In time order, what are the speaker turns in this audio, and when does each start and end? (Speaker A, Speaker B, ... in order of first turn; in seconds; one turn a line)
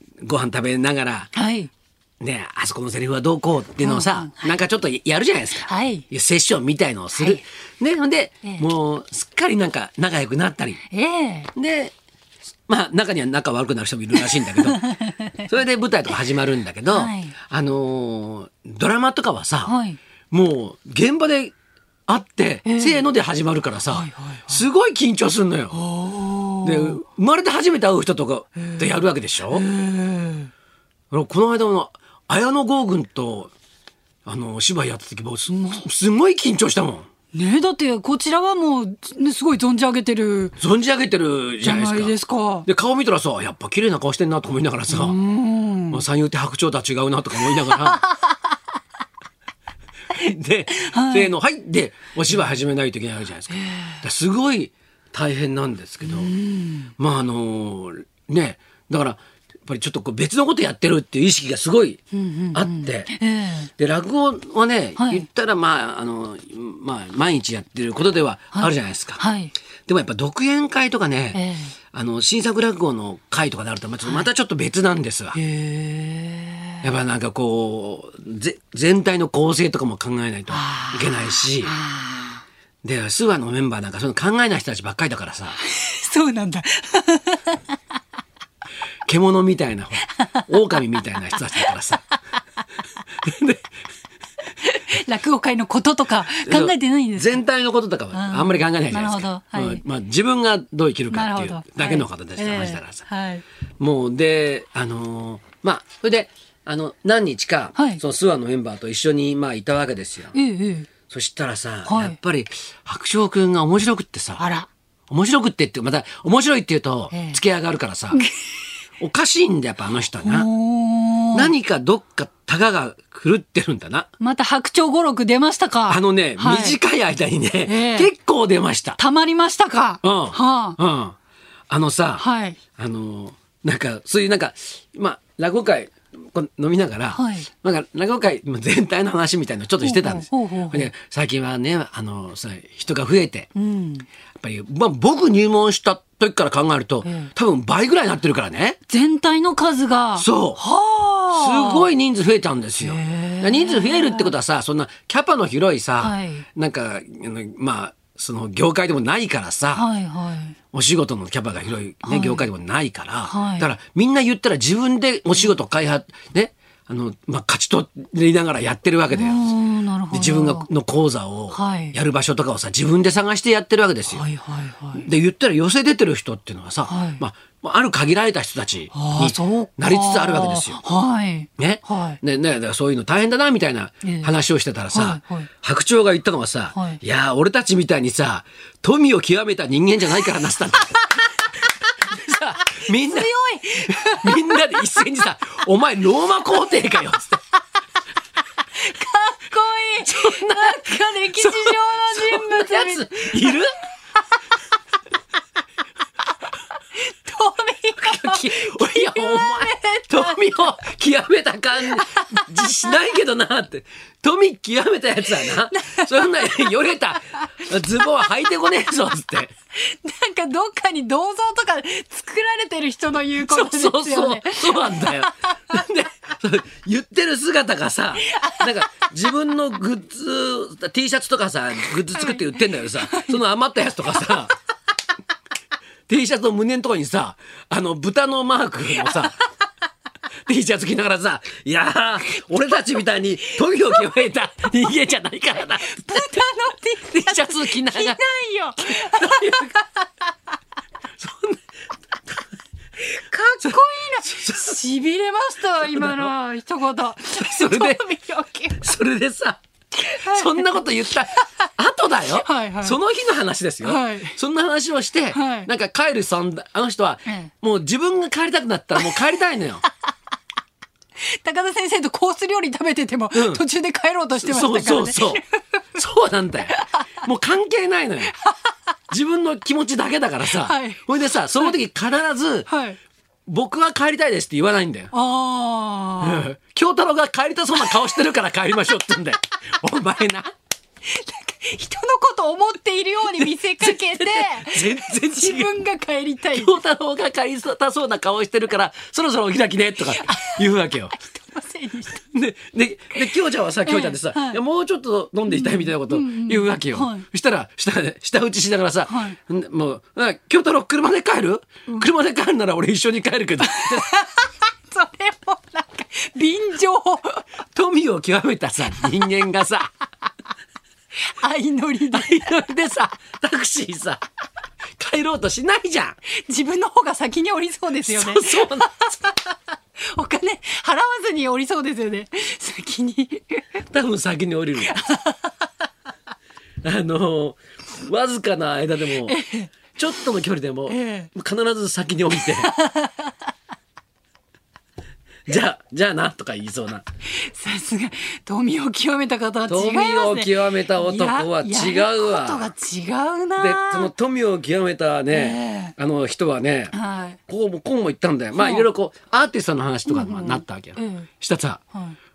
Speaker A: 0.2-1.3
Speaker B: 1.3-1.7
Speaker A: 2.2-10.8
Speaker B: 3.8-4.5
Speaker B: 5.6-6.1
Speaker B: 7.1-7.4
Speaker B: 10.9-11.5
Speaker A: 11.5-11.9
Speaker A: 12.7-19.7
Speaker B: 14.6-15.3
Speaker B: 16.9-17.4
Speaker B: 19.6-20.0
Speaker A: 20.3-21.5
Speaker A: 22.1-25.8
Speaker B: 22.6-23.0
Speaker B: 23.9-24.6
Speaker B: 25.7-27.0
Speaker A: 26.6-29.6
Speaker B: 28.7-30.5
Speaker A: 31.1-33.5
Speaker A: 34.2-37.1
Speaker B: 35.5-35.8
Speaker B: 37.3-40.6
Speaker A: 40.6-45.2
Speaker B: 41.6-42.7
Speaker B: 44.9-46.0
Speaker A: 45.9-48.0
Speaker B: 47.6-48.3
Speaker A: 50.1-56.3
Speaker B: 50.7-51.3
Speaker B: 53.6-53.9
Speaker B: 56.0-56.9
Speaker A: 57.0-62.0
Speaker B: 62.1-63.7
Speaker A: 62.5-63.1
Speaker A: 63.8-69.2
Speaker B: 65.0-65.2
Speaker B: 68.5-69.5
Speaker A: 69.8-75.4
Speaker B: 71.3-71.7
Speaker B: 75.3-76.8
Speaker A: 76.8-81.8
Speaker B: 80.5-82.4
Speaker A: 82.8-85.6
Speaker B: 85.6-87.7
Speaker A: 89.0-92.0
Speaker A: 93.2-93.7
Speaker B: 94.6-97.4
Speaker A: 96.4-103.0
Speaker B: 98.1-99.8
Speaker B: 101.1-103.4
Speaker A: 103.8-110.3
Speaker B: 107.7-108.0
Speaker B: 110.3-110.9
Speaker A: 111.0-114.5
Speaker B: 111.8-112.2
Speaker B: 114.4-114.7
Speaker A: 115.1-118.2
Speaker B: 117.1-117.4
Speaker A: 119.0-120.5
Speaker B: 120.2-121.5
Speaker A: 121.3-124.1
Speaker B: 124.2-126.8
Speaker A: 125.9-129.0
Speaker B: 127.7-128.1
Speaker B: 129.0-130.8
Speaker A: 130.0-131.2
Speaker A: 131.7-132.2
Speaker B: 132.2-132.6
Speaker A: 132.8-143.5
Speaker B: 137.1-137.5
Speaker B: 139.8-140.9
Speaker B: 143.5-144.1
Speaker A: 144.4-148.8
Speaker B: 147.0-147.3
Speaker B: 148.9-151.9
Speaker A: 150.2-150.6
Speaker A: 151.3-159.8
Speaker B: 152.8-154.3
Speaker B: 156.0-156.4
Speaker B: 159.7-160.6
Speaker A: 160.7-169.4
Speaker B: 162.0-162.4
Speaker B: 163.2-163.7
Speaker B: 169.1-170.7
Speaker A: 170.1-174.2
Speaker B: 171.5-171.9
Speaker B: 174.1-175.0
Speaker A: 174.9-180.8
Speaker B: 176.9-177.2
Speaker B: 178.9-182.2
Speaker A: 181.6-191.1
Speaker B: 184.0-184.3
Speaker B: 184.9-185.5
Speaker B: 186.7-187.0
Speaker A: 192.1-197.4
Speaker B: 192.7-194.9
Speaker B: 198.8-203.6
Speaker A: 200.0-203.8
Speaker B: 207.0-210.6
Speaker A: 208.0-219.5
Speaker B: 211.9-212.9
Speaker B: 215.4-216.8
Speaker B: 219.8-225.8
Speaker A: 223.4-234.6
Speaker B: 228.2-228.8
Speaker B: 232.1-233.4
Speaker A: 236.1-239.4
Speaker A: 240.5-246.4
Speaker B: 243.8-244.2
Speaker B: 245.8-250.0
Speaker A: 247.1-248.2
Speaker A: 248.8-249.7
Speaker A: 251.2-251.6
Speaker B: 253.0-258.9
Speaker A: 253.6-254.8
Speaker A: 255.8-256.3
Speaker A: 257.3-258.0
Speaker A: 258.8-269.8
Speaker B: 260.0-260.7
Speaker B: 262.4-263.0
Speaker B: 263.8-264.4
Speaker B: 265.3-265.7
Speaker B: 267.2-267.5
Speaker B: 271.2-275.5
Speaker A: 273.3-273.6
Speaker A: 274.4-275.4
Speaker A: 275.9-278.4
Speaker B: 276.7-277.0
Speaker A: 279.1-282.7
Speaker B: 280.5-281.0
Speaker B: 282.7-283.0
Speaker A: 283.5-285.1
Speaker B: 285.1-286.4
Speaker A: 286.2-290.5
Speaker B: 291.1-296.7
Speaker A: 293.3-295.8
Speaker A: 296.5-301.1
Speaker B: 300.1-302.2
Speaker A: 302.2-314.1
Speaker B: 303.9-304.6
Speaker B: 305.5-307.2
Speaker B: 309.1-309.4
Speaker B: 313.6-317.4
Speaker A: 317.7-319.9
Speaker B: 321.3-322.4
Speaker A: 322.1-324.2
Speaker A: 325.0-326.2
Speaker B: 326.4-333.8
Speaker A: 328.0-328.9
Speaker A: 333.8-335.0
Speaker B: 334.8-335.6
Speaker A: 336.8-339.4
Speaker B: 339.2-339.8
Speaker A: 339.9-342.7
Speaker B: 340.9-341.3
Speaker B: 342.6-343.3
Speaker A: 345.5-347.1
Speaker B: 347.4-354.1
Speaker A: 349.7-352.7
Speaker A: 353.6-356.9
Speaker B: 355.3-355.9
Speaker B: 356.9-357.4
Speaker A: 357.5-361.8
Speaker B: 358.5-358.9
Speaker B: 360.1-361.3